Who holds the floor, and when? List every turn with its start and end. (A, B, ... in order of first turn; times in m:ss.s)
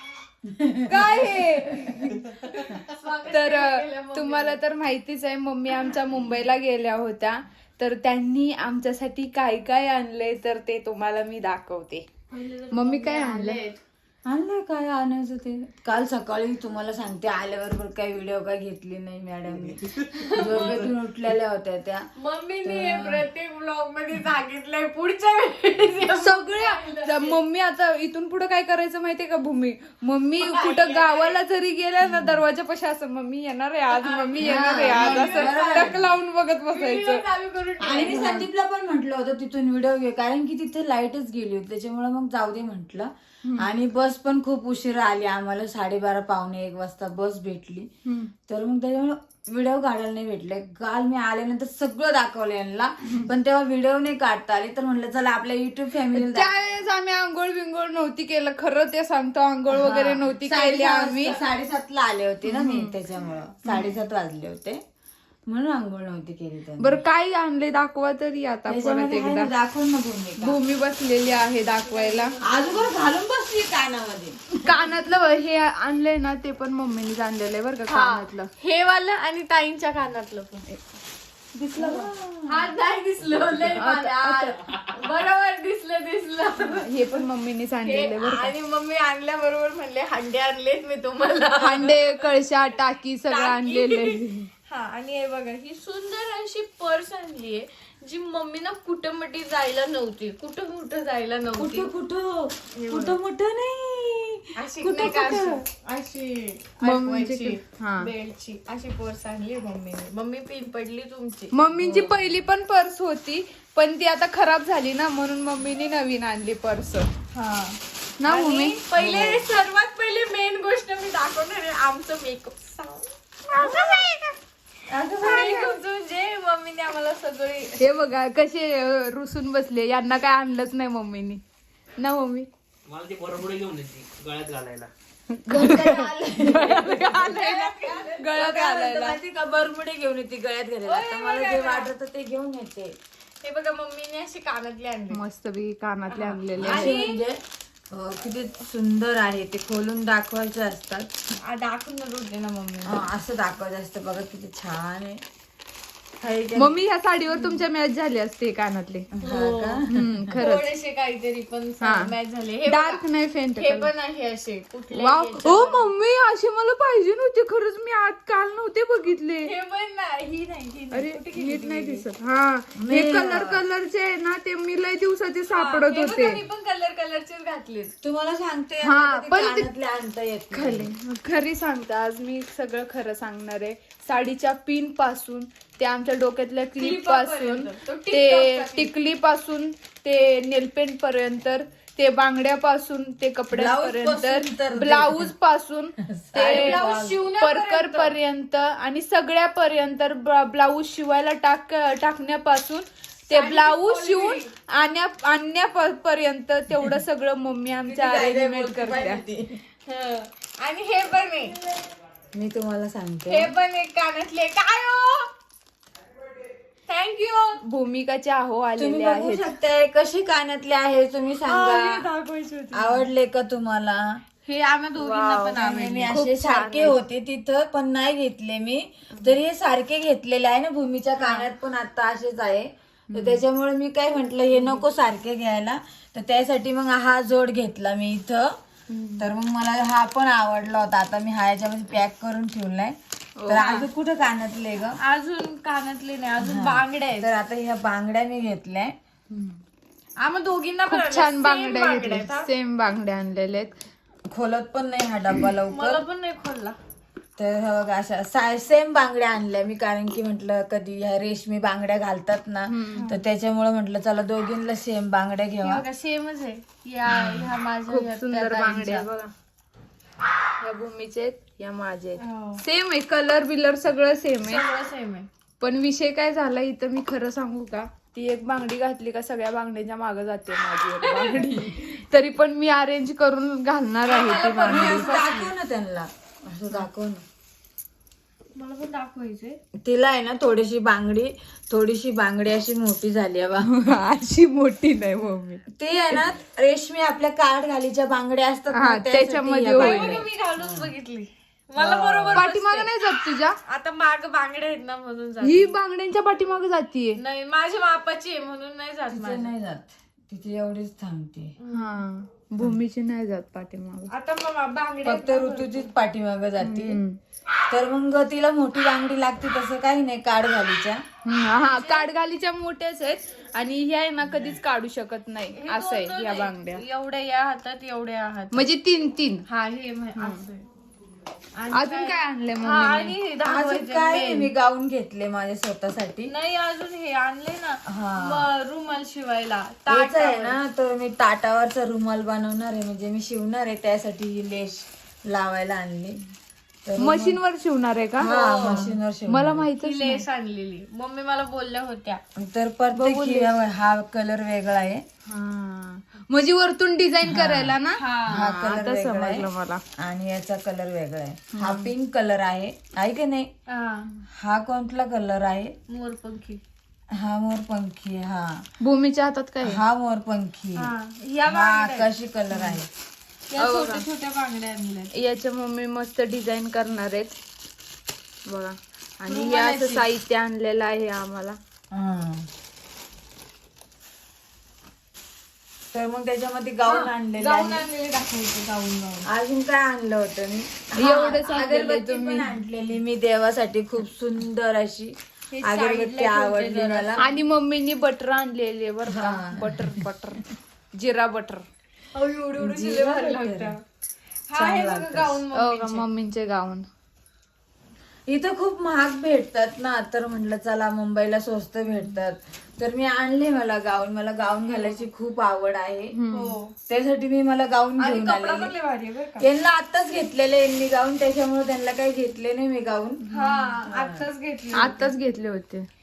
0:00.4-0:02.8 A
0:00.9-0:02.0 B
0:02.0-0:04.6 C
0:03.3-0:12.1 B
0:12.3-0:13.8 C
0:12.7-0:13.6 B
0:14.2-0:22.1 A
0:20.1-0:20.9 C
0:22.2-0:27.4 C
0:22.6-0:23.2 A
0:26.1-0:37.2 B
0:30.4-0:31.4 C
0:32.0-0:32.4 A
0:33.9-0:36.1 C
0:34.4-0:36.1 A
0:36.7-0:38.5 C
0:37.8-0:47.9 A
0:48.0-0:48.3 B
0:48.4-0:56.5 A
0:56.1-1:01.4 B
0:59.7-1:04.8 A
1:02.4-1:02.9 B
1:05.5-1:07.0 A
1:06.8-1:09.5 B
1:08.7-1:10.6 A
1:10.4-1:12.3 B
1:11.8-1:12.9 C
1:12.4-1:14.8 A
1:14.6-1:18.5 B
1:17.9-1:20.6 C
1:21.6-1:22.7 A
1:21.8-1:22.1 B
1:22.5-1:27.3 C
1:23.8-1:24.7 B
1:26.8-1:28.5 B
1:27.8-1:32.2 C
1:31.6-1:34.5 B
1:33.3-1:41.9 C
1:41.6-1:45.6 A
1:42.7-1:43.2 C
1:44.6-1:52.1 C
1:46.8-1:48.1 B
1:51.5-1:57.1 B
1:57.3-2:03.1 C
1:58.2-1:58.8 B
1:59.0-1:59.4 A
2:03.5-2:04.2 B
2:03.6-2:04.2 C
2:03.6-2:03.9 A
2:04.9-2:05.6 A
2:05.2-2:07.9 C
2:07.8-2:11.4 B
2:12.0-2:12.5 B
2:12.9-2:14.9 D
2:15.3-2:17.0 B
2:15.5-2:22.9 A
2:16.4-2:18.3 C
2:18.2-2:19.2 B
2:20.8-2:21.9 C
2:23.4-2:25.2 C
2:25.1-2:26.9 B
2:26.1-2:27.2 C
2:26.6-2:31.1 A
2:31.4-2:33.0 C
2:32.8-2:35.2 A
2:36.2-2:36.8 A
2:36.6-2:39.1 B
2:39.1-2:40.1 A
2:39.2-2:43.0 C
2:39.9-2:40.7 B
2:41.8-2:42.1 B
2:42.7-2:43.9 B
2:43.6-2:45.9 C
2:44.9-2:49.5 B
2:49.4-2:52.0 C
2:50.9-2:56.4 B
2:52.8-2:53.6 A
2:55.5-2:57.9 C
2:58.0-3:00.9 A
2:58.8-2:59.7 B
3:00.5-3:29.2 B
3:06.8-3:08.9 C
3:13.5-3:15.3 A
3:16.1-3:17.1 A
3:16.3-3:18.1 C
3:23.3-3:24.5 C
3:27.8-3:29.6 A
3:29.9-3:31.6 C
3:32.3-3:33.5 A
3:33.3-3:35.3 C
3:36.9-3:37.6 C
3:37.6-3:39.5 B
3:38.8-3:42.1 A
3:41.4-3:43.0 C
3:42.7-3:44.2 A
3:44.4-3:46.1 C
3:45.1-3:58.6 A
3:46.1-3:47.0 B
3:51.2-3:51.5 C
3:53.1-3:53.4 B
3:58.9-3:59.3 B
3:59.2-4:03.0 A
4:03.4-4:03.9 B
4:03.5-4:05.0 A
4:05.0-4:07.3 C
4:06.4-4:08.9 A
4:09.3-4:09.6 B
4:10.2-4:12.5 C
4:10.9-4:13.7 B
4:14.3-4:16.0 A
4:15.7-4:16.8 C
4:17.4-4:25.9 A
4:22.7-4:23.1 B
4:22.9-4:23.2 C
4:25.6-4:29.0 C
4:27.1-4:27.5 A
4:27.9-4:29.3 B
4:30.6-4:34.6 B
4:32.2-4:32.6 C
4:34.4-4:35.3 C
4:35.6-4:45.1 B
4:41.0-4:41.6 C
4:44.0-4:45.5 C
4:44.6-4:47.2 A
4:48.6-4:49.6 C
4:49.8-4:53.7 A
4:53.6-4:55.6 B
4:55.7-5:00.9 A
4:58.7-5:00.2 B
4:59.7-5:02.9 C
5:01.8-5:02.4 A
5:02.3-5:03.6 B
5:03.7-5:05.7 C
5:05.4-5:07.2 B
5:07.2-5:09.5 C
5:09.1-5:11.5 A
5:11.6-5:12.0 C
5:11.7-5:14.1 B
5:14.1-5:15.9 C
5:15.0-5:17.0 A
5:16.6-5:17.2 B
5:17.7-5:21.0 A
5:21.2-5:26.8 B
5:21.6-5:22.1 C
5:25.5-5:28.7 C
5:28.5-5:29.4 B
5:29.5-5:30.6 C
5:30.2-5:30.4 B
5:31.6-5:34.5 C
5:31.7-5:33.1 B
5:33.4-5:36.3 A
5:36.3-5:40.6 C
5:37.9-5:38.5 A
5:39.9-5:46.2 A
5:46.8-5:47.4 A
5:47.0-5:50.2 B
5:48.2-5:49.7 A
5:48.3-5:49.0 C
5:49.8-5:52.2 C
5:52.4-5:55.0 A
5:52.9-5:53.5 B
5:55.2-5:59.8 B
5:57.2-5:57.8 A
5:57.9-5:58.5 C
5:58.3-5:59.5 A
6:00.0-6:03.5 A
6:01.5-6:01.9 B
6:03.7-6:04.1 C
6:04.3-6:05.7 A
6:05.9-6:06.6 C
6:07.1-6:08.6 A
6:08.8-6:09.8 B
6:09.6-6:10.9 A
6:10.8-6:12.1 C
6:11.5-6:12.9 A
6:13.5-6:15.1 C
6:13.6-6:14.0 B
6:15.1-6:17.3 B
6:18.5-6:21.6 B
6:19.3-6:20.0 C
6:21.9-6:22.4 A
6:25.9-6:27.8 A
6:26.8-6:29.2 C
6:29.2-6:37.3 A
6:31.0-6:32.5 B
6:35.5-6:37.2 C
6:37.2-6:40.4 B
6:39.1-6:40.0 A
6:40.9-6:41.6 B
6:42.1-6:43.8 C
6:42.6-6:43.7 A
6:44.5-6:46.1 C
6:44.6-6:45.4 A
6:45.5-6:46.8 B
6:48.3-6:56.1 A
6:54.6-6:55.0 C
6:56.1-6:56.6 B
6:56.3-6:56.7 C
6:56.9-6:58.7 A
6:58.0-6:59.5 C
6:59.4-7:03.2 A
7:03.3-7:03.7 B
7:03.3-7:05.1 C
7:03.8-7:04.2 A
7:04.7-7:05.9 B